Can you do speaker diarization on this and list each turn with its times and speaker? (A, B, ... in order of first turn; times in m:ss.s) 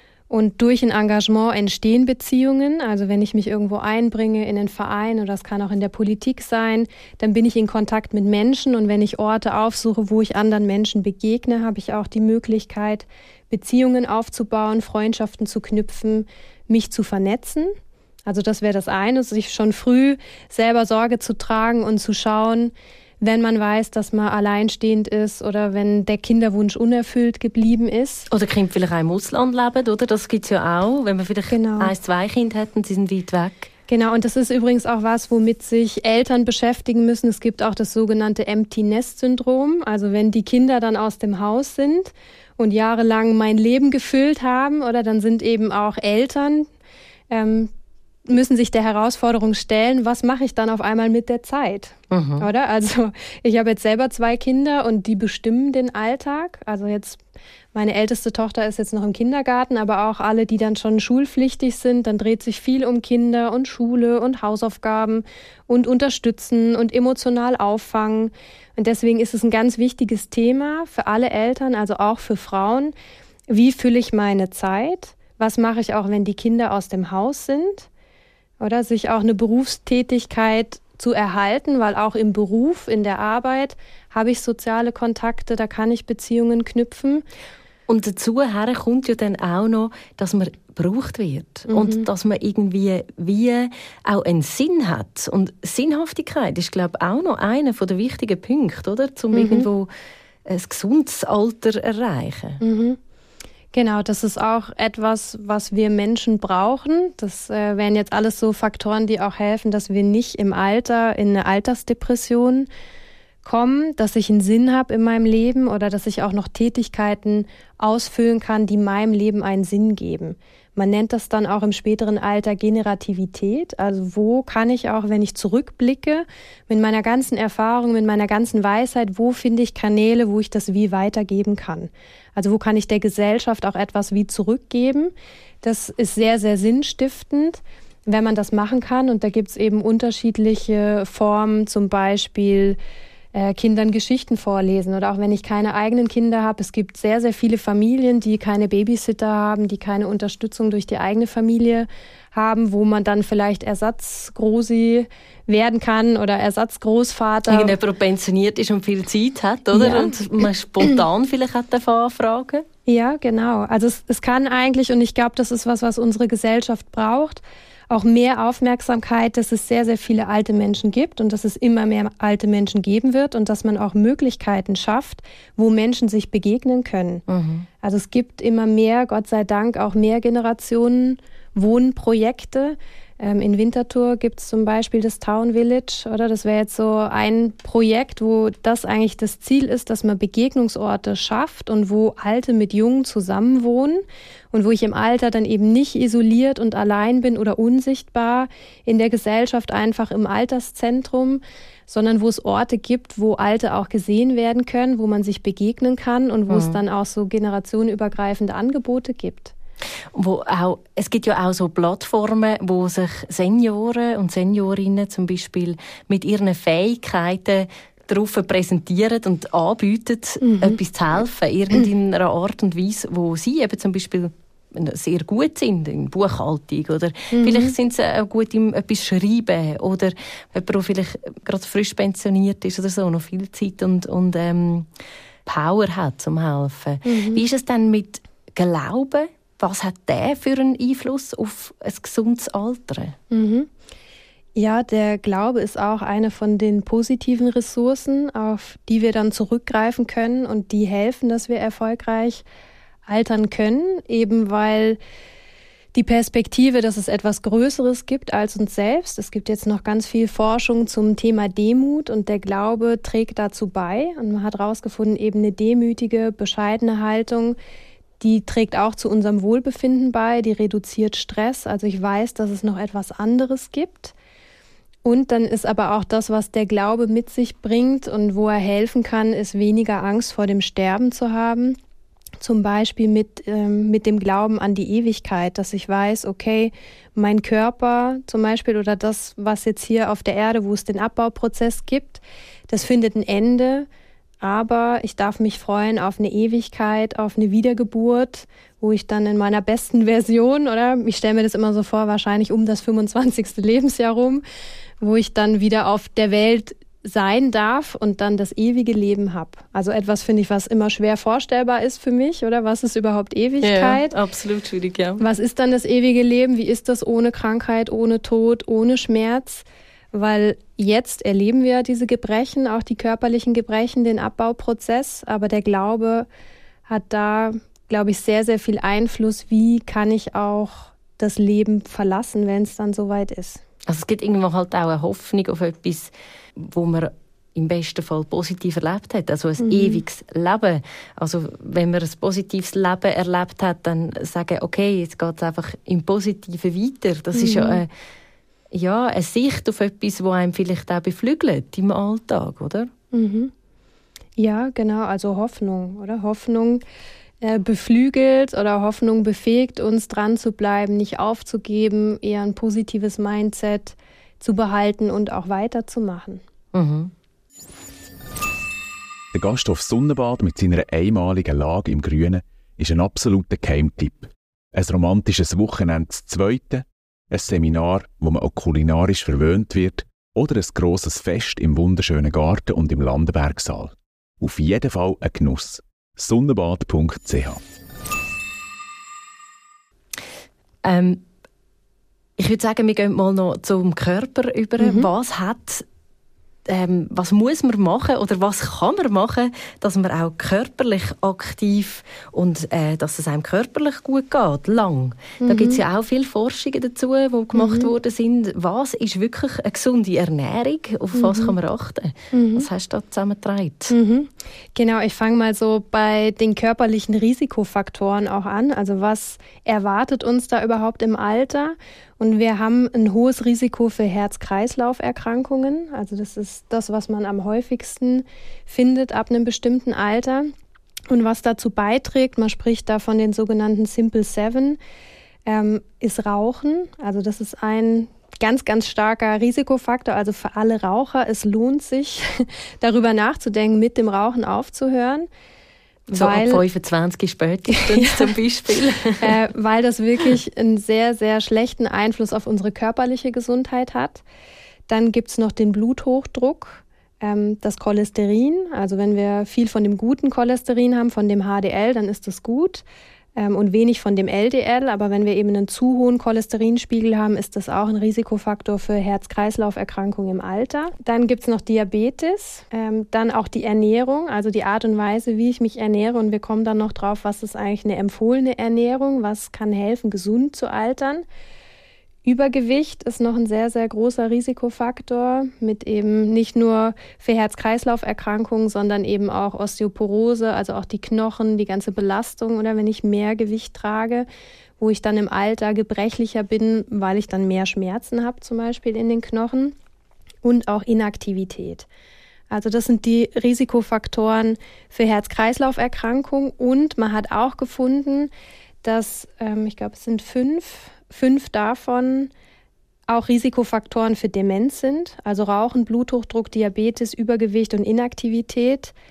0:00.3-0:17.7 A
0:18.2-0:28.3 A
0:28.3-0:33.7 B
0:31.5-0:31.9 A
0:33.9-0:46.7 A
0:47.3-0:47.7 A
0:48.2-0:57.2 A
0:52.1-0:52.5 B
0:57.7-1:12.9 A
1:13.5-1:17.9 A
1:18.6-1:27.2 A
1:27.9-1:39.9 B
1:31.7-1:32.0 A
1:39.3-1:39.7 A
1:40.4-1:42.6 B
1:42.6-1:43.0 A
1:43.7-1:52.7 A
1:53.4-2:22.8 A
2:23.3-2:37.8 A
2:37.5-2:42.6 B
2:39.7-2:41.0 A
2:42.8-2:57.2 A
2:57.3-2:57.6 B
2:57.8-3:29.5 A
3:26.5-3:26.8 B
3:30.1-3:54.9 B
3:40.4-3:40.8 A
3:47.3-3:47.8 A
3:55.4-4:03.2 B
3:57.0-3:57.4 A
4:03.3-4:03.7 A
4:04.6-4:12.4 A
4:13.0-4:15.0 A
4:15.9-4:27.6 A
4:28.2-4:34.1 A
4:35.0-4:41.8 A
4:42.4-4:53.9 A
4:54.4-5:04.4 A
5:05.0-5:14.1 A
5:13.6-5:15.2 B
5:15.2-5:26.3 A
5:26.9-5:33.6 A
5:33.8-5:47.9 B
5:39.6-5:40.0 A
5:47.3-5:47.8 A
5:48.7-5:52.9 B
5:53.1-5:53.5 A
5:54.4-5:56.8 A
5:57.4-6:06.4 A
6:06.7-6:07.1 B
6:09.3-6:27.6 C
6:30.8-6:31.2 B
6:32.4-6:35.8 B
6:34.8-6:35.1 A
6:36.7-6:53.9 B
6:45.4-6:45.8 A
6:47.5-6:47.9 A
6:51.1-6:51.6 A
6:52.3-6:52.7 A
6:53.9-7:10.5 A
7:11.1-7:14.8 A
7:15.4-7:25.3 A
7:26.1-7:26.6 A
7:26.1-7:29.3 B
7:27.7-7:28.3 A
7:29.2-7:34.2 A
7:34.9-7:42.8 A
7:43.4-8:01.2 A
8:02.2-8:14.3 A
8:14.8-8:19.7 A
8:20.4-8:21.9 A
8:22.5-8:28.3 A
8:28.8-8:32.3 A
8:33.1-8:38.9 A